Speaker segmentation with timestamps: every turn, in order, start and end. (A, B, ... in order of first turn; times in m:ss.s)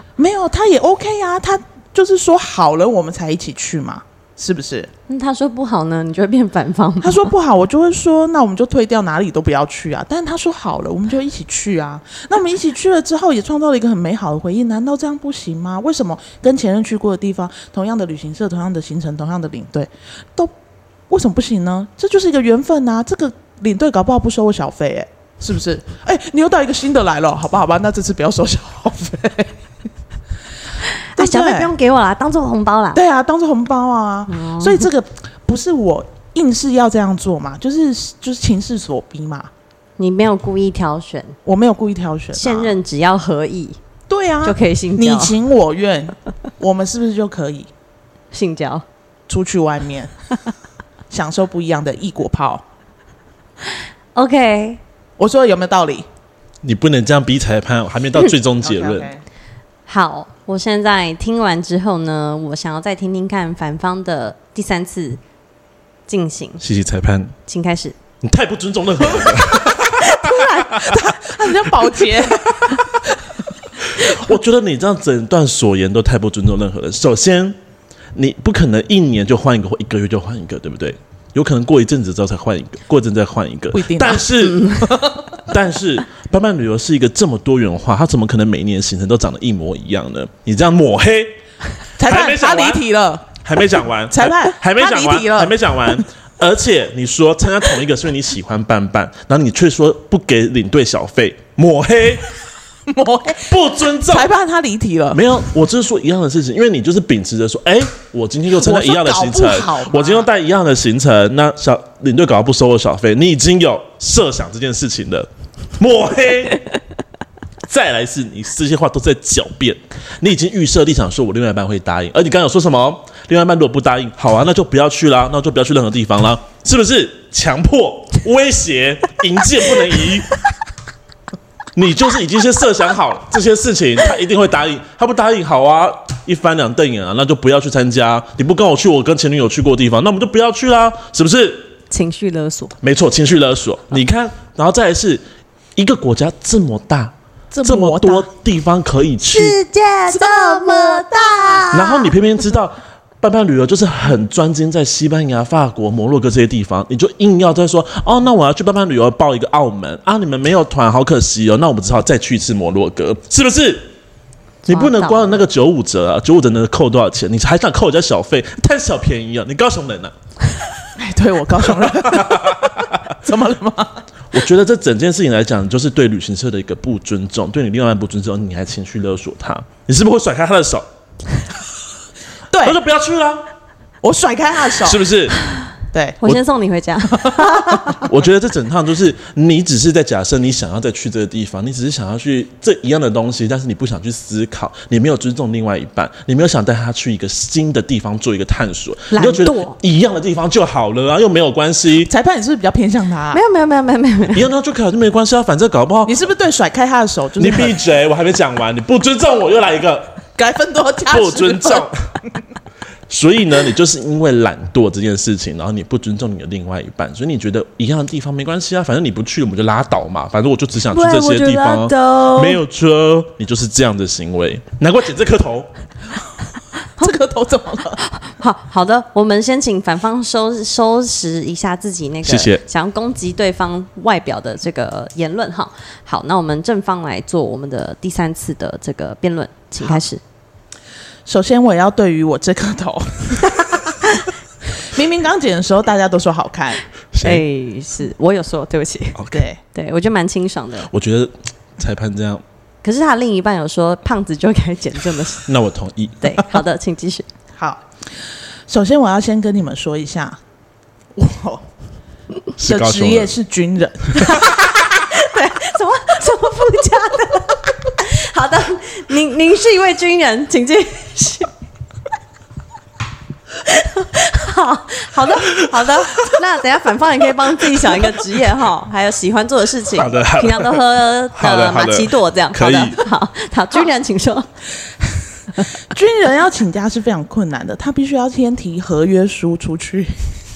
0:00.2-0:04.9 A
0:05.1-0:07.3 B
0:07.0-0:20.5 A
0:21.1-0:29.6 A
0:31.1-0:33.0 B
0:31.2-0:31.7 A
0:33.0-0:39.5 A
0:34.3-0:34.9 B
0:40.0-0:41.4 B
0:41.4-0:42.8 A
0:42.4-0:43.8 B
0:44.1-0:47.7 A
0:44.4-0:45.4 B
0:48.3-0:48.8 B
0:49.3-0:50.1 A
0:51.1-0:52.6 A
0:53.7-0:54.8 B
0:55.2-0:56.1 A
0:56.6-0:59.1 C
0:58.6-0:59.2 A
0:59.9-1:05.2 B
1:06.1-1:06.6 B
1:06.6-1:07.4 C
1:07.5-1:08.0 B
1:08.2-1:10.2 C
1:10.1-1:10.6 B
1:10.4-1:13.3 A
1:14.0-1:17.6 C
1:18.1-1:31.4 C
1:23.7-1:25.3 A
1:32.0-1:33.4 A
1:32.0-1:32.8 C
1:33.4-1:42.4 C
1:34.1-1:36.0 A
1:42.9-1:45.4 A
1:43.4-1:44.3 C
1:45.1-1:56.7 C
1:48.5-1:50.3 A
1:57.7-2:10.4 C
2:11.8-2:21.7 C
2:21.9-2:22.8 B
2:22.8-2:25.2 C
2:25.8-2:27.1 C
2:27.5-2:28.3 A
2:27.6-2:29.6 C
2:29.2-2:32.1 B
2:30.1-2:31.7 A
2:31.7-2:43.9 C
2:44.7-2:45.4 B
2:44.7-2:50.1 C
2:51.0-2:54.0 A
2:51.9-2:53.0 C
2:54.3-3:00.9 C
3:02.5-3:02.8 A
3:02.6-3:03.5 C
3:04.0-3:05.1 A
3:04.8-3:05.4 C
3:05.9-3:06.2 A
3:06.2-3:08.0 B
3:07.1-3:08.0 A
3:08.0-3:22.1 C
3:19.1-3:19.8 B
3:22.0-3:23.4 A
3:23.3-3:24.5 B
3:24.3-3:26.2 C
3:26.0-3:27.8 A
3:27.4-3:30.2 C
3:30.4-3:31.9 A
3:31.1-3:32.0 C
3:33.1-3:45.7 C
3:40.9-3:42.6 B
3:47.0-3:48.0 A
3:48.0-4:00.2 B
3:52.2-3:52.6 C
4:01.3-4:04.2 A
4:04.8-4:06.8 A
4:07.1-4:07.4 C
4:07.2-4:09.2 B
4:09.3-4:09.6 A
4:09.7-4:10.9 B
4:10.9-4:12.4 C
4:12.8-4:15.5 B
4:15.5-4:16.4 C
4:16.2-4:17.3 B
4:17.6-4:17.8 A
4:18.7-4:20.4 A
4:21.1-4:21.7 A
4:22.6-4:23.3 C
4:22.6-4:24.5 A
4:24.2-4:31.5 B
4:33.6-4:44.5 B
4:39.9-4:43.0 C
4:45.8-4:50.2 A